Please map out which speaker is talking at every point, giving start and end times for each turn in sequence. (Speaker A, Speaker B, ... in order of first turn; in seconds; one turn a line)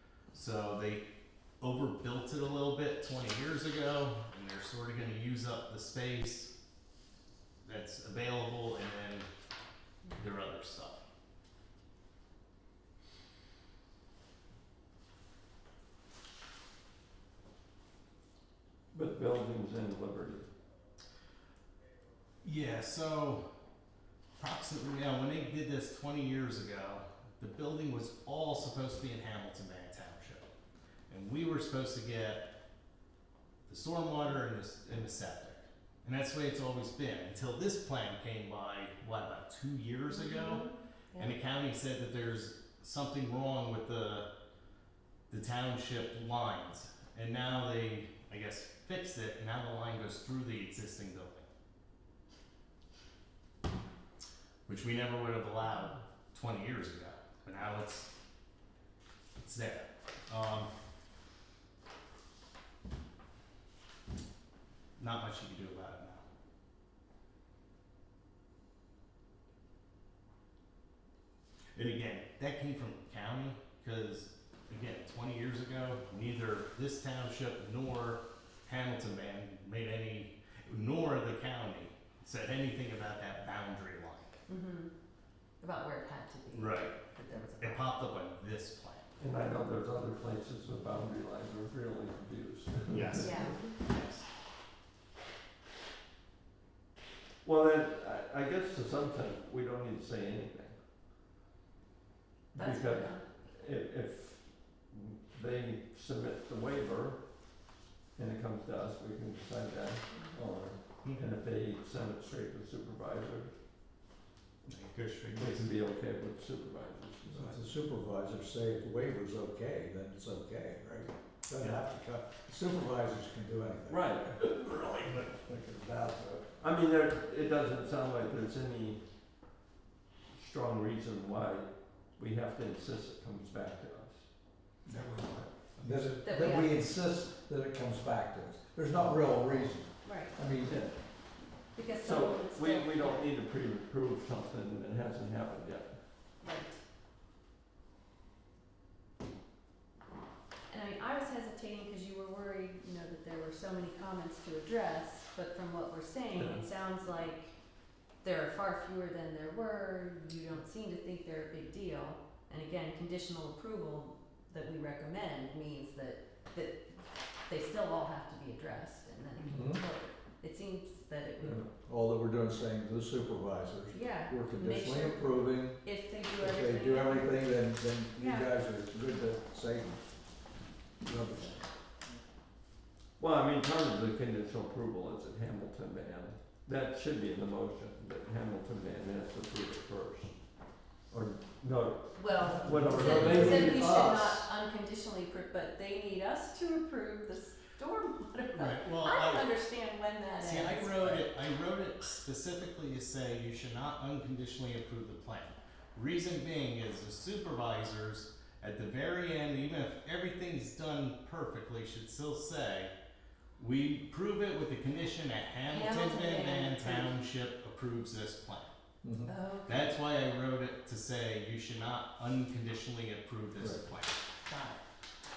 Speaker A: 0.3-1.1
Speaker A: 1.6-6.5
Speaker A: 7.6-9.3
Speaker A: 10.2-11.0
Speaker B: 18.9-20.5
Speaker A: 22.4-23.4
Speaker A: 24.4-30.5
Speaker A: 31.1-32.5
Speaker A: 33.7-44.3
Speaker C: 40.1-41.3
Speaker A: 45.3-51.5
Speaker A: 54.7-58.1
Speaker A: 59.4-60.7
Speaker A: 65.0-66.2
Speaker A: 71.7-84.4
Speaker C: 84.5-84.9
Speaker C: 85.6-88.0
Speaker A: 86.5-87.0
Speaker A: 87.6-89.1
Speaker B: 89.2-93.7
Speaker A: 92.9-94.3
Speaker C: 93.2-93.6
Speaker B: 97.4-100.8
Speaker B: 102.5-107.2
Speaker C: 102.5-103.2
Speaker B: 108.2-113.5
Speaker C: 110.1-110.4
Speaker A: 111.0-111.3
Speaker A: 114.7-115.7
Speaker B: 115.3-117.6
Speaker D: 117.2-126.6
Speaker B: 123.9-124.4
Speaker B: 126.6-129.0
Speaker B: 130.3-134.3
Speaker D: 134.8-140.8
Speaker C: 136.2-136.8
Speaker C: 140.0-140.4
Speaker B: 140.6-140.9
Speaker C: 141.7-143.3
Speaker B: 142.0-146.0
Speaker C: 146.4-146.8
Speaker C: 150.7-157.5
Speaker B: 156.3-156.7
Speaker C: 158.2-171.7
Speaker D: 169.4-169.8
Speaker D: 171.5-180.0
Speaker C: 173.9-177.6
Speaker C: 178.2-178.5
Speaker D: 181.0-181.7
Speaker B: 183.2-190.3
Speaker B: 191.1-194.2
Speaker C: 192.1-201.3
Speaker D: 192.4-194.4
Speaker A: 198.5-199.5
Speaker A: 200.4-212.9
Speaker A: 213.6-218.7
Speaker C: 215.7-217.1
Speaker D: 219.0-219.3
Speaker C: 219.3-220.0
Speaker A: 219.7-224.2
Speaker D: 223.6-223.8
Speaker C: 224.5-224.8